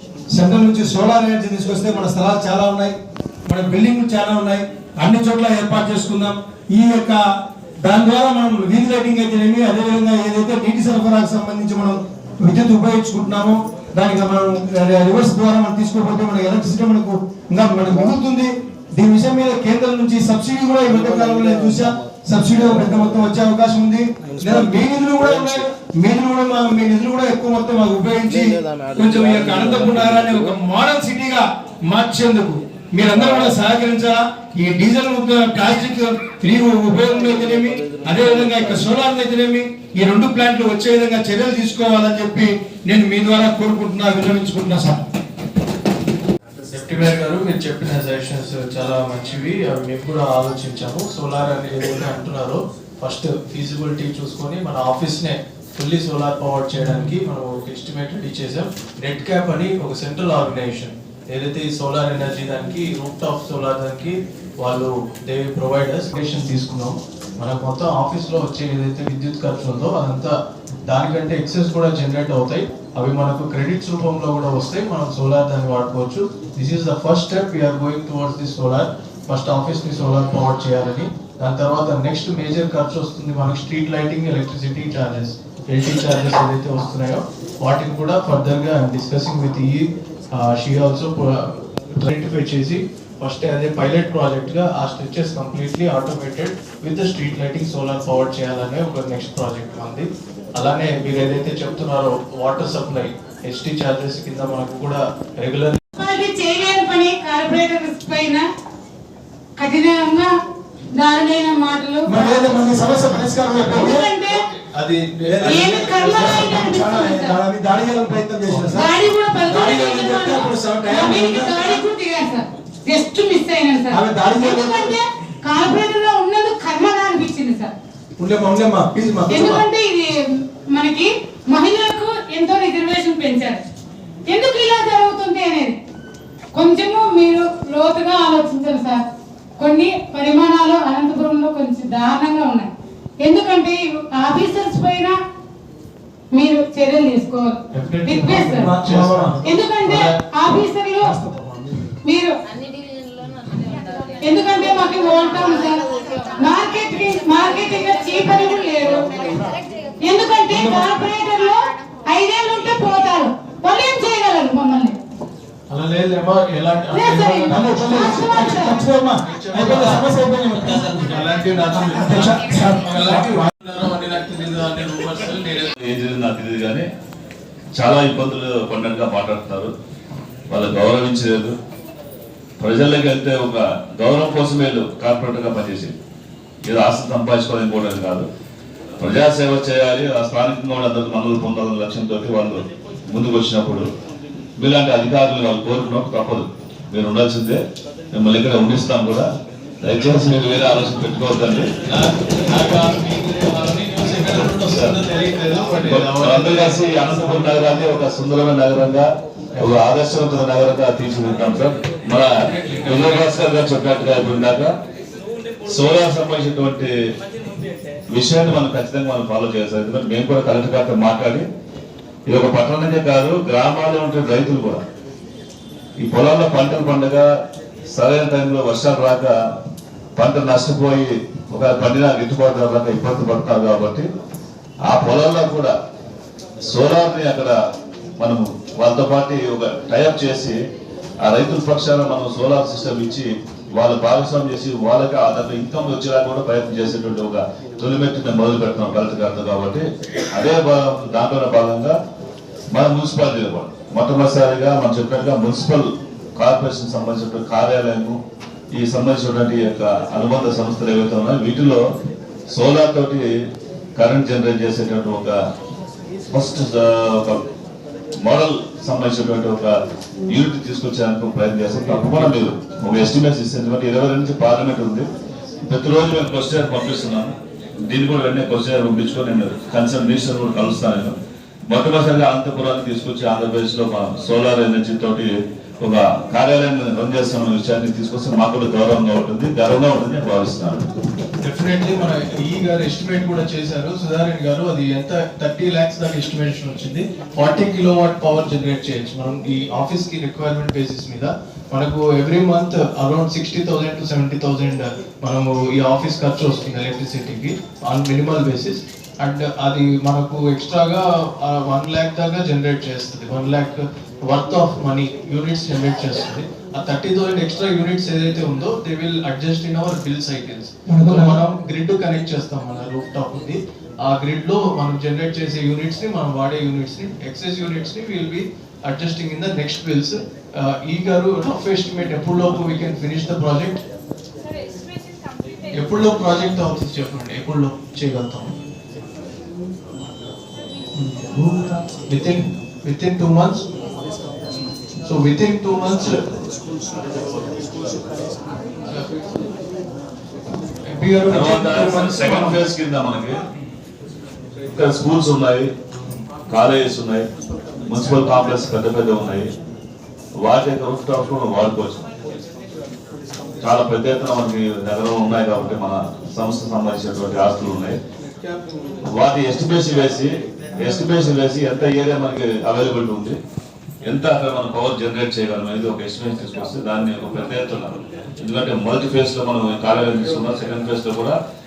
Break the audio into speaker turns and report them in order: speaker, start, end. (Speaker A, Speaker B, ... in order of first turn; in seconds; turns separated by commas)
Speaker A: 0.3-7.2, Speaker A: 7.8-45.0, Speaker B: 46.7-70.3, Speaker B: 70.9-105.8, Speaker C: 106.0-108.4, Speaker C: 109.6-110.3, Speaker C: 111.0-112.3, Speaker A: 112.0-114.1, Speaker C: 113.7-114.5, Speaker B: 114.7-116.5, Speaker A: 115.3-118.9, Speaker C: 115.4-117.3, Speaker C: 118.7-127.7, Speaker A: 119.5-121.8, Speaker A: 123.9-125.0, Speaker A: 128.2-129.6, Speaker C: 129.3-130.1, Speaker C: 130.7-133.6, Speaker C: 134.3-135.7, Speaker C: 136.6-139.0, Speaker C: 139.6-142.7, Speaker C: 143.2-145.1, Speaker C: 146.3-148.7, Speaker B: 147.7-150.0, Speaker A: 148.3-150.0, Speaker C: 149.4-151.1, Speaker A: 151.0-151.7, Speaker C: 152.1-152.3, Speaker C: 154.2-155.8, Speaker C: 156.4-159.1, Speaker C: 160.0-164.9, Speaker A: 160.5-160.9, Speaker B: 165.7-168.5, Speaker C: 166.9-168.8, Speaker A: 167.5-170.9, Speaker B: 169.2-170.1, Speaker B: 170.8-175.7, Speaker A: 171.9-173.5, Speaker D: 175.8-176.9, Speaker D: 177.8-179.7, Speaker D: 180.5-181.5, Speaker D: 182.6-185.9, Speaker D: 186.7-188.3, Speaker D: 189.0-193.9, Speaker D: 194.6-197.6, Speaker D: 198.1-199.3, Speaker D: 199.8-201.7, Speaker B: 201.9-207.7, Speaker D: 205.7-209.1, Speaker B: 209.5-209.8, Speaker D: 209.6-212.3, Speaker B: 212.3-213.5, Speaker D: 212.8-214.7, Speaker D: 215.7-216.9, Speaker D: 218.1-221.4, Speaker D: 222.3-224.8, Speaker D: 226.0-227.2, Speaker D: 227.9-229.3, Speaker D: 230.2-234.1, Speaker D: 234.9-235.7, Speaker D: 236.7-237.5, Speaker D: 238.2-240.6, Speaker D: 241.2-252.0, Speaker D: 252.7-258.2, Speaker D: 258.7-261.8, Speaker D: 262.5-263.3, Speaker D: 264.0-265.4, Speaker D: 266.3-267.4, Speaker D: 268.2-269.8, Speaker D: 270.3-275.1, Speaker D: 275.6-277.3, Speaker D: 277.9-281.1, Speaker D: 281.7-290.8, Speaker B: 291.4-333.8, Speaker A: 320.9-321.4, Speaker B: 335.7-338.5, Speaker B: 340.9-343.6, Speaker B: 345.0-346.2, Speaker B: 348.9-349.2, Speaker B: 350.9-352.6, Speaker D: 351.3-353.4, Speaker D: 354.7-355.7, Speaker D: 356.5-357.2, Speaker D: 357.9-359.5, Speaker D: 360.4-362.0, Speaker D: 363.6-368.0, Speaker D: 369.1-373.4, Speaker D: 374.0-381.4